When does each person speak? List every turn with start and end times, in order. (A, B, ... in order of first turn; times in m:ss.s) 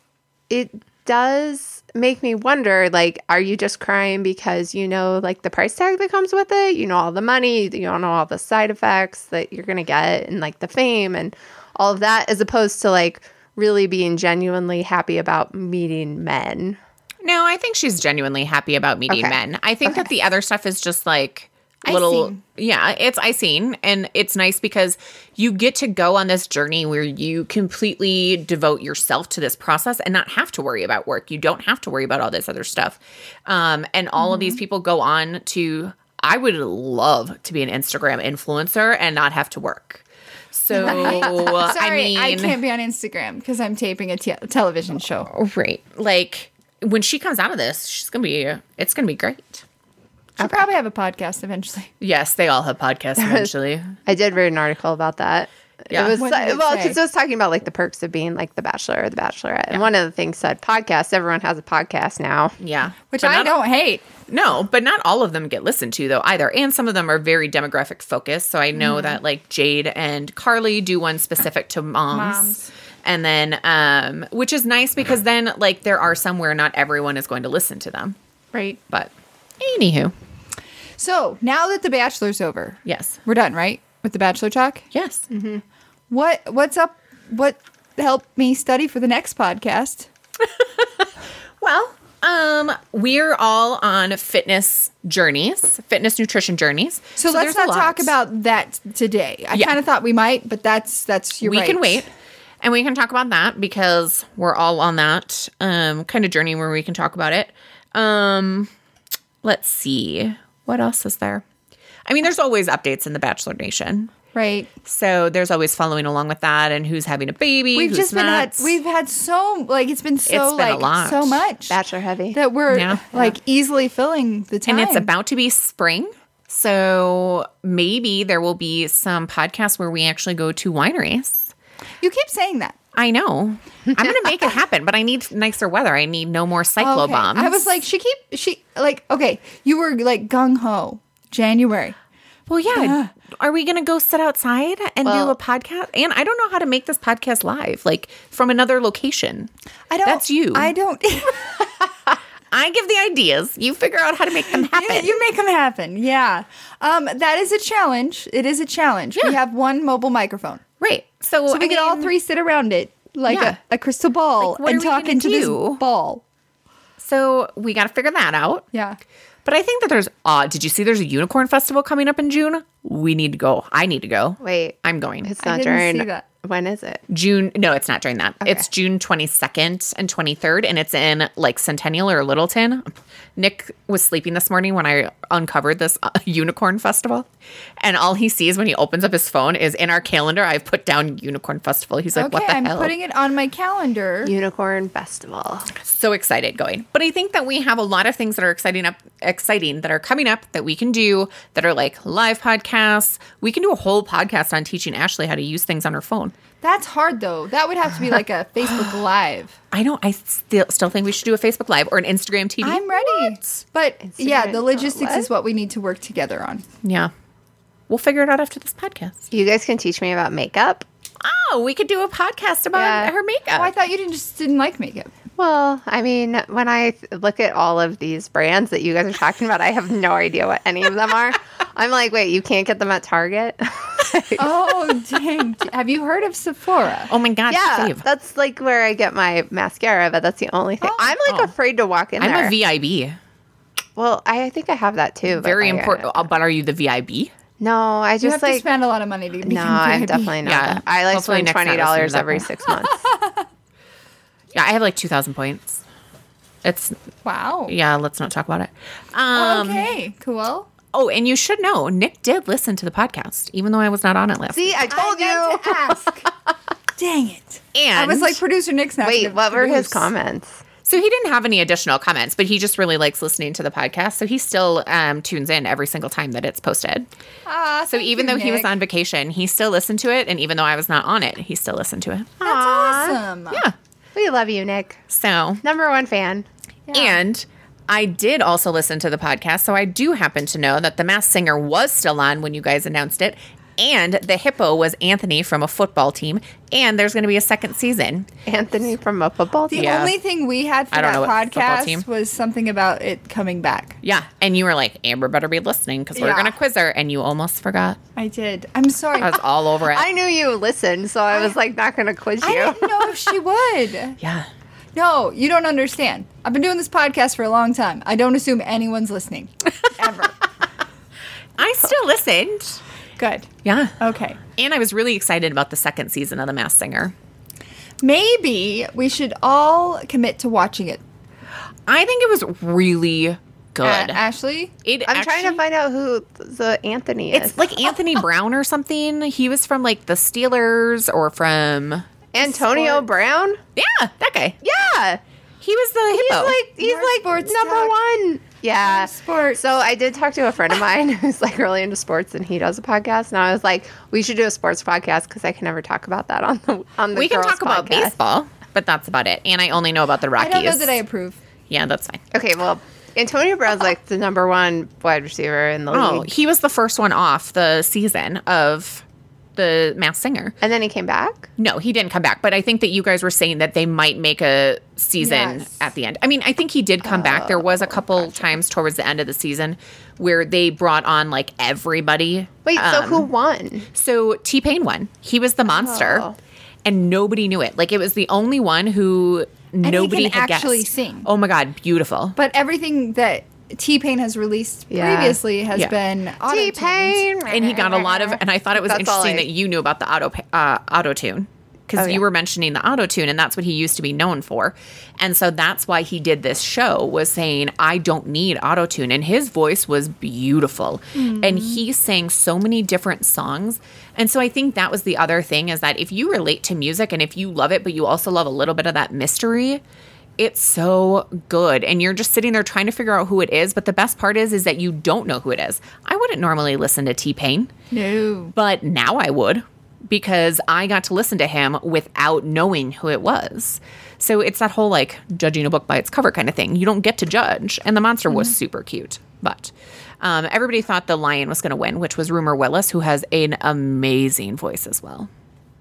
0:00.5-0:16.8 A
0:17.2-0:42.6 B
0:19.1-0:20.1 A
0:21.8-0:22.4 C
0:40.7-0:45.3 C
0:40.8-0:41.7 A
0:45.3-0:49.6 B
0:50.4-0:51.9 C
0:50.4-0:50.7 A
0:52.0-0:54.0 B
0:53.2-0:53.5 A
0:54.1-1:02.6 A
0:55.9-0:56.2 B
0:56.2-0:57.0 C
1:02.6-1:03.6 B
1:03.1-1:04.1 C
1:04.3-1:18.2 B
1:12.1-1:12.7 C
1:18.9-1:20.1 B
1:21.0-1:24.9 C
1:22.9-1:23.2 B
1:24.9-1:25.3 B
1:25.3-1:25.6 A
1:26.1-1:30.1 C
1:30.8-1:31.0 B
1:31.6-1:38.1 B
1:37.2-1:42.0 C
1:41.4-1:42.1 B
1:42.6-1:48.7 B
1:49.4-1:51.4 B
1:52.1-1:54.1 B
1:54.3-1:54.7 C
1:54.8-1:58.8 B
1:57.7-2:01.8 C
2:00.3-2:01.5 B
2:01.7-2:02.4 A
2:02.3-2:05.1 C
2:02.7-2:03.3 B
2:04.7-2:11.5 B
2:12.0-2:12.8 C
2:13.0-2:17.7 B
2:16.8-2:22.0 C
2:22.5-2:29.5 B
2:22.7-2:23.1 C
2:25.0-2:25.4 A
2:29.9-2:31.6 C
2:30.1-2:30.7 B
2:32.5-2:35.2 B
2:34.5-2:40.6 C
2:40.8-2:42.2 B
2:41.5-2:46.2 C
2:43.3-2:43.6 B
2:44.4-2:45.8 B
2:47.0-2:48.7 B
2:48.7-2:49.0 C
2:49.4-2:55.3 B
2:54.4-2:57.0 A
2:55.4-2:56.2 C
2:57.1-3:07.3 B
3:07.8-3:12.9 B
3:12.2-3:14.3 C
3:14.2-3:15.7 A
3:15.8-3:26.3 B
3:26.6-3:29.6 C
3:28.7-3:29.0 B
3:29.7-3:33.6 B
3:32.6-3:36.6 C
3:34.1-3:35.3 A
3:36.8-3:37.1 B
3:37.9-3:39.2 B
3:39.3-3:40.8 A
3:41.2-3:43.7 B
3:42.7-3:43.1 A
3:43.5-3:45.1 C
3:45.4-3:54.9 A
3:54.4-3:57.1 C
3:57.1-3:58.0 B
3:57.5-4:02.6 A
4:00.8-4:01.2 C
4:01.3-4:01.5 B
4:02.2-4:03.2 B
4:04.0-4:06.3 A
4:05.3-4:07.3 B
4:07.6-4:08.6 A
4:08.2-4:10.4 C
4:09.4-4:13.0 A
4:10.4-4:12.5 B
4:12.8-4:13.4 C
4:14.5-4:15.8 B
4:16.6-4:17.0 B
4:17.2-4:17.8 C
4:17.7-4:19.9 B
4:19.3-4:20.7 C
4:20.9-4:24.8 B
4:24.5-4:26.0 A
4:24.9-4:26.3 C
4:27.0-4:30.1 C
4:27.7-4:28.4 B
4:29.0-4:30.6 A
4:30.8-4:37.1 B
4:37.5-4:38.7 C
4:37.9-4:43.7 B
4:42.4-4:43.6 C
4:44.2-4:45.0 A
4:45.1-4:45.6 B
4:45.6-4:46.5 A
4:46.9-4:47.2 C
4:46.9-4:58.3 B
4:58.4-5:00.0 A
4:59.7-5:04.0 C
4:59.7-5:00.2 B
5:00.9-5:02.0 B
5:04.0-5:08.0 B
5:06.2-5:06.5 A
5:06.2-5:06.5 C
5:08.2-5:09.4 C
5:09.2-5:10.1 B
5:09.8-5:13.1 A
5:12.4-5:14.2 C
5:14.2-5:14.5 B
5:15.0-5:20.4 C
5:21.6-5:22.8 B
5:23.2-5:24.4 C
5:23.6-5:27.1 B
5:28.0-5:31.0 C
5:31.9-5:34.2 B
5:33.8-5:34.7 C
5:34.8-5:35.6 B
5:35.1-5:37.7 A
5:37.3-5:42.1 B
5:42.3-5:43.6 A
5:42.4-5:43.1 C
5:43.8-5:44.6 B
5:44.6-5:45.2 A
5:45.6-5:46.6 B
5:46.1-5:48.0 C
5:46.7-5:58.1 A
5:48.8-5:49.6 C
5:57.1-6:01.0 B
6:00.4-6:01.4 C
6:01.7-6:02.2 B
6:02.3-6:06.3 A
6:05.9-6:09.0 B
6:09.6-6:10.6 B
6:10.6-6:11.5 A
6:11.6-6:23.3 B
6:15.2-6:15.7 C
6:17.0-6:18.5 A
6:22.6-6:23.9 A
6:23.9-6:26.3 B
6:25.8-6:26.4 A
6:26.8-6:32.4 B
6:29.8-6:31.3 C
6:32.4-6:37.3 C
6:34.9-6:35.4 A
6:36.4-6:39.5 A
6:37.5-6:59.8 B
6:42.0-6:42.2 A
6:51.2-6:51.8 C
7:00.4-7:07.7 B
7:07.9-7:08.5 C
7:08.6-7:25.3 B